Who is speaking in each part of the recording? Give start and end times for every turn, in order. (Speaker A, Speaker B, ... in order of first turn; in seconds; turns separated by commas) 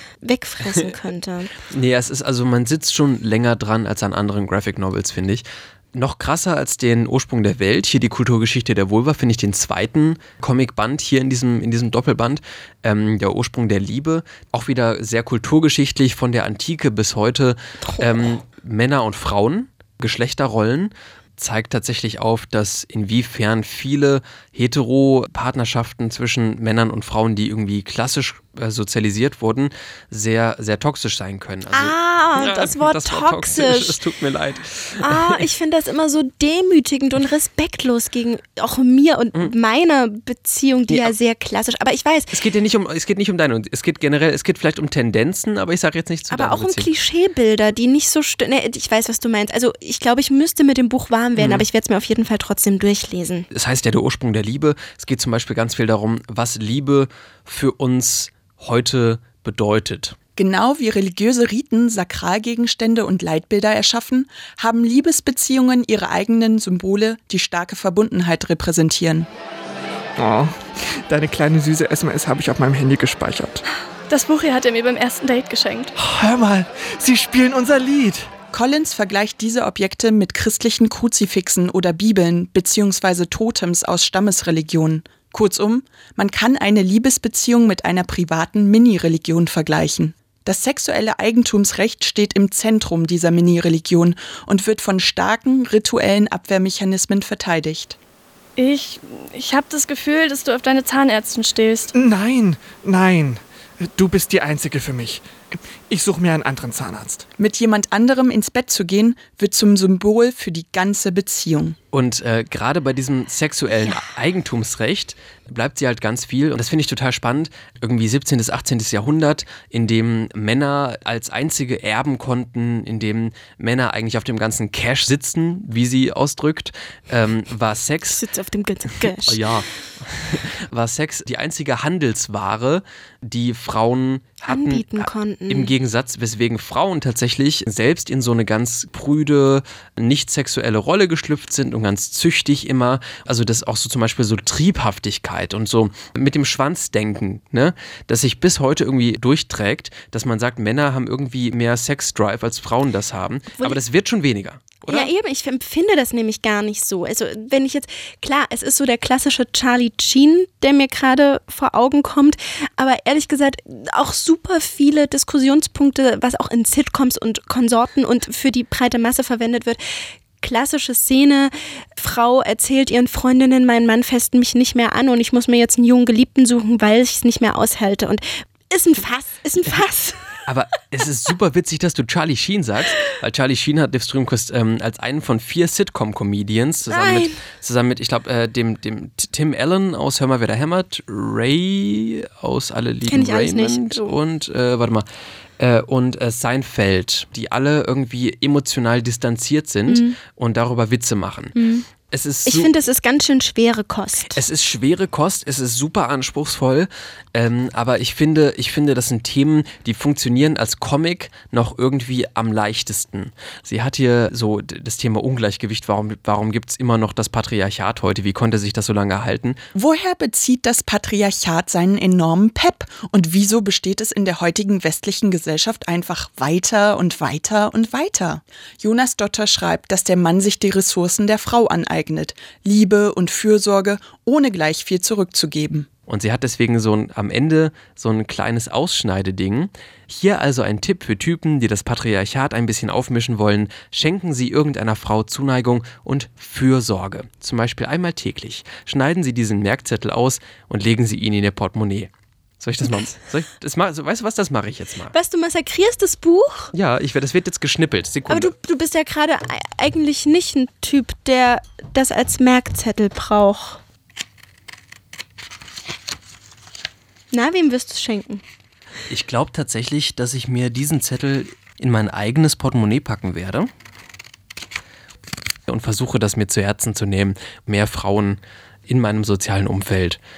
Speaker A: 0.2-1.6, Speaker B: 1.7-35.5, Speaker A: 17.8-18.3, Speaker A: 31.7-34.0, Speaker A: 35.0-42.4, Speaker B: 40.9-41.1, Speaker B: 42.3-46.9, Speaker A: 46.3-53.5, Speaker B: 51.4-51.6, Speaker B: 53.5-60.1, Speaker C: 60.4-69.3, Speaker D: 70.2-73.6, Speaker E: 74.1-75.9, Speaker D: 76.0-78.3, Speaker C: 78.5-98.0, Speaker E: 98.6-101.9, Speaker D: 101.9-107.2, Speaker C: 107.4-111.8, Speaker B: 111.9-128.2, Speaker A: 128.1-129.4, Speaker B: 129.0-155.1, Speaker A: 134.4-135.7, Speaker A: 154.9-169.8, Speaker A: 170.4-180.4, Speaker B: 180.4-195.1, Speaker A: 186.9-187.4, Speaker A: 193.1-194.1, Speaker B: 195.6-201.5, Speaker A: 199.9-200.2, Speaker A: 201.5-201.8, Speaker B: 202.1-202.7, Speaker A: 202.4-204.4, Speaker B: 204.3-219.6, Speaker C: 219.7-235.9, Speaker B: 236.1-255.1, Speaker A: 255.1-256.7, Speaker B: 256.7-258.5, Speaker A: 258.2-263.8, Speaker A: 267.3-268.4, Speaker B: 269.1-273.7, Speaker B: 275.7-280.2